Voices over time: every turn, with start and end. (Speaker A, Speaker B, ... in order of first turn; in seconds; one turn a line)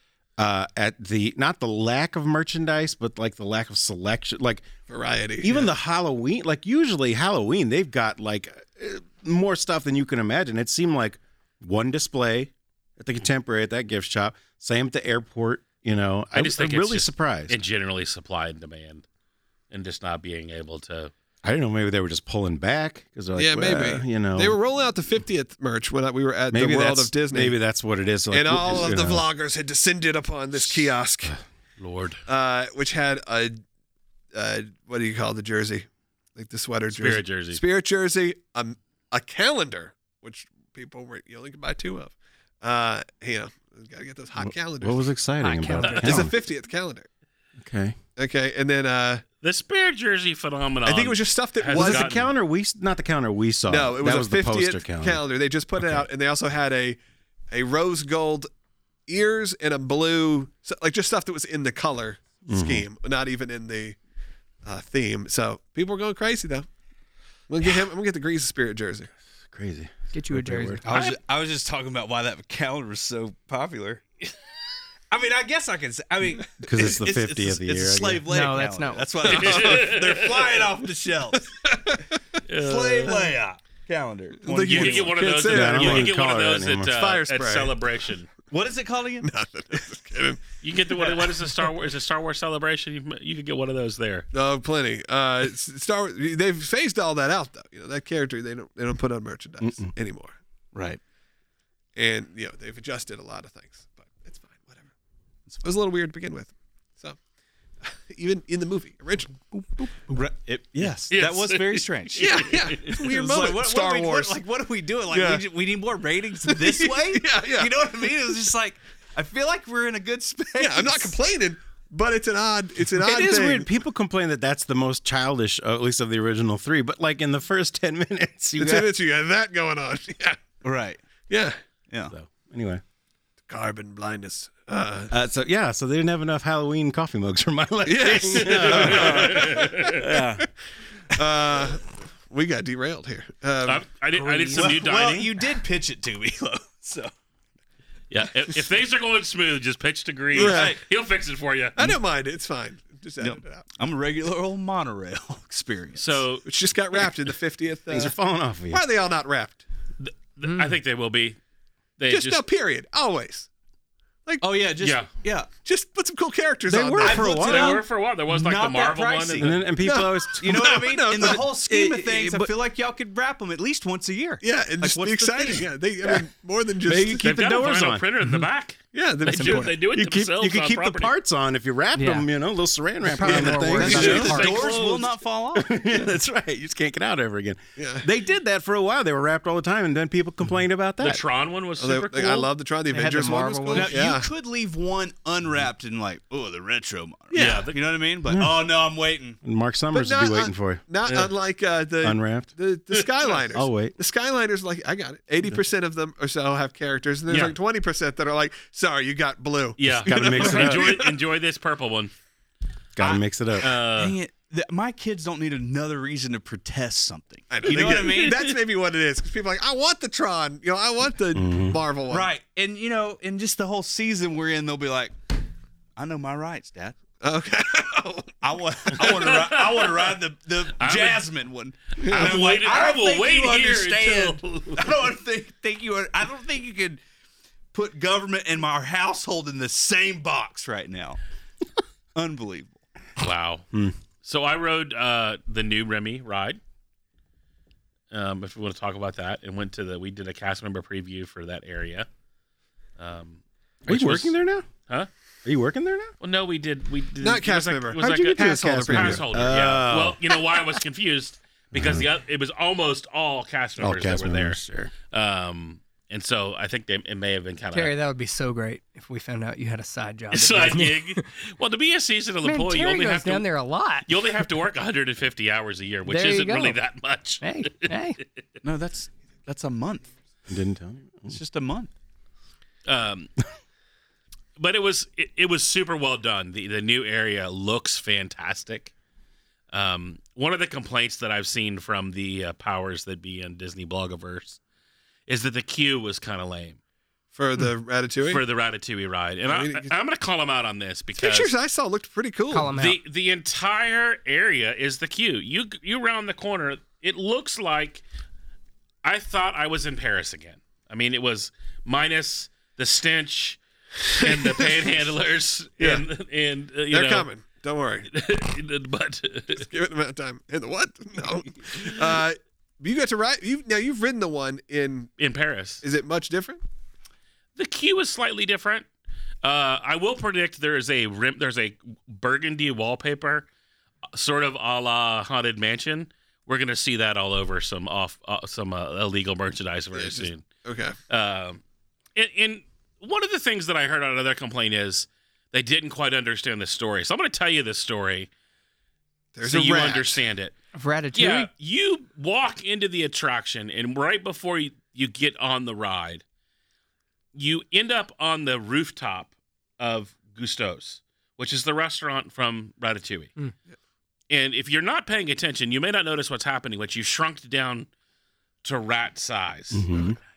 Speaker A: 0.4-4.7
Speaker B: 4.9-5.7
Speaker A: 5.4-17.6
Speaker C: 16.3-19.1
Speaker C: 19.7-21.1
Speaker A: 21.4-24.6
Speaker B: 23.4-27.6
Speaker A: 26.5-29.2
Speaker B: 28.3-31.4
Speaker C: 31.8-32.2
Speaker B: 32.2-33.6
Speaker B: 34.3-45.1
Speaker C: 36.9-37.6
Speaker A: 44.4-46.3
Speaker D: 45.4-46.3
Speaker C: 45.8-46.1
Speaker B: 45.9-47.1
Speaker A: 47.6-48.0
Speaker B: 48.1-49.2
Speaker C: 49.4-52.3
Speaker B: 50.9-52.1
Speaker A: 51.7-55.2
Speaker B: 53.7-57.0
Speaker A: 55.8-56.0
Speaker B: 57.5-58.5
Speaker B: 59.1-64.0
Speaker A: 62.5-62.8
Speaker B: 64.6-66.7
Speaker B: 67.5-69.1
Speaker A: 69.5-70.8
Speaker D: 70.1-70.8
Speaker E: 70.8-74.0
Speaker C: 70.9-71.2
Speaker E: 75.1-81.5
Speaker A: 76.6-78.2
Speaker D: 78.3-79.3
Speaker B: 79.2-79.8
Speaker C: 79.3-80.6
Speaker B: 81.3-82.2
Speaker C: 82.5-83.3
Speaker E: 82.6-85.2
Speaker B: 84.4-86.1
Speaker C: 84.6-88.3
Speaker A: 85.4-87.0
Speaker B: 86.9-87.7
Speaker E: 88.5-89.3
Speaker B: 89.2-90.4
Speaker C: 90.6-94.3
Speaker B: 94.3-100.3
Speaker A: 99.6-99.9
Speaker E: 100.7-101.0
Speaker B: 102.0-104.9
Speaker B: 105.6-107.2
Speaker B: 107.8-109.4
Speaker E: 110.1-121.2
Speaker C: 111.1-113.0
Speaker B: 112.2-114.4
Speaker B: 115.1-115.4
Speaker B: 116.5-117.7
Speaker B: 120.6-123.7
Speaker A: 123.0-128.9
Speaker B: 128.6-130.4
Speaker E: 130.6-131.0
Speaker B: 131.3-131.6
Speaker A: 132.1-132.8
Speaker B: 133.5-135.1
Speaker A: 135.1-139.4
Speaker B: 137.8-139.9
Speaker C: 138.3-140.1
Speaker E: 138.8-140.4
Speaker A: 140.1-140.3
Speaker B: 141.1-143.8
Speaker C: 143.6-145.3
Speaker E: 144.1-147.1
Speaker C: 148.1-151.9
Speaker E: 150.3-150.8
Speaker B: 150.3-150.8
Speaker B: 151.8-153.7
Speaker E: 153.2-156.2
Speaker C: 155.9-156.4
Speaker B: 156.4-158.1
Speaker A: 157.9-158.8
Speaker B: 158.7-159.6
Speaker C: 160.0-161.4
Speaker D: 160.4-160.8
Speaker C: 162.0-162.4
Speaker B: 162.1-163.5
Speaker E: 164.4-165.5
Speaker C: 164.8-165.1
Speaker B: 165.6-167.8
Speaker A: 166.7-167.8
Speaker E: 167.0-169.6
Speaker C: 167.4-169.6
Speaker A: 169.4-171.4
Speaker B: 169.8-172.4
Speaker E: 170.4-175.7
Speaker B: 174.4-177.3
Speaker A: 176.8-178.1
Speaker C: 177.2-181.1
Speaker B: 178.9-179.8
Speaker D: 179.3-179.7
Speaker A: 179.9-184.5
Speaker D: 181.9-182.3
Speaker D: 183.1-184.7
Speaker E: 183.2-185.8
Speaker C: 183.8-185.1
Speaker A: 185.5-191.2
Speaker B: 187.8-188.1
Speaker C: 191.0-192.5
Speaker B: 191.8-194.3
Speaker D: 192.9-194.0
Speaker E: 193.0-199.4
Speaker B: 197.3-197.7
Speaker C: 197.3-197.8
Speaker A: 198.3-198.6
Speaker A: 199.4-200.8
Speaker B: 199.9-211.1
Speaker A: 202.0-202.5
Speaker A: 203.5-204.0
Speaker C: 207.3-207.6
Speaker C: 209.8-212.1
Speaker A: 210.0-211.0
Speaker A: 212.9-213.7
Speaker E: 213.0-218.4
Speaker C: 213.6-214.2
Speaker B: 217.5-222.3
Speaker C: 218.0-218.5
Speaker A: 221.3-221.8
Speaker E: 222.1-225.1
Speaker E: 225.9-226.9
Speaker B: 227.2-228.4
Speaker E: 228.4-237.0
Speaker C: 229.0-230.2
Speaker C: 230.8-231.3
Speaker B: 232.0-232.4
Speaker C: 232.0-234.9
Speaker E: 237.7-241.2
Speaker E: 242.1-242.8
Speaker C: 243.2-243.7
Speaker C: 244.2-246.6
Speaker C: 248.1-252.1
Speaker C: 253.0-254.3
Speaker A: 253.8-254.7
Speaker A: 255.4-256.1
Speaker C: 256.2-267.9
Speaker B: 257.2-259.2
Speaker A: 258.0-260.2
Speaker A: 261.7-262.1
Speaker A: 263.8-264.9
Speaker D: 267.7-271.2
Speaker C: 270.3-273.4
Speaker D: 272.4-274.1
Speaker C: 274.1-277.9
Speaker D: 276.0-276.8
Speaker D: 277.4-278.2
Speaker E: 278.6-280.1
Speaker A: 280.5-281.4
Speaker E: 281.2-281.9
Speaker C: 282.8-283.3
Speaker C: 284.6-288.9
Speaker C: 289.7-294.6
Speaker C: 295.3-296.8
Speaker B: 297.3-298.4
Speaker C: 298.2-301.5
Speaker B: 299.5-299.9
Speaker B: 301.2-302.7
Speaker D: 302.5-303.0
Speaker C: 302.7-308.0
Speaker C: 309.0-313.6
Speaker B: 314.1-314.8
Speaker C: 314.2-317.3
Speaker B: 315.8-316.0
Speaker B: 316.9-318.1
Speaker C: 318.1-319.7
Speaker B: 319.5-325.1
Speaker C: 325.2-325.8
Speaker B: 325.8-326.6
Speaker C: 327.6-328.8
Speaker C: 329.4-333.5
Speaker C: 334.1-340.4
Speaker B: 339.9-340.9
Speaker C: 341.1-341.6
Speaker C: 342.1-348.3
Speaker B: 349.3-350.2
Speaker C: 349.4-350.6
Speaker D: 350.7-351.5
Speaker C: 351.1-356.2
Speaker C: 357.3-363.3
Speaker C: 364.3-367.9
Speaker C: 368.6-369.9
Speaker A: 369.7-370.1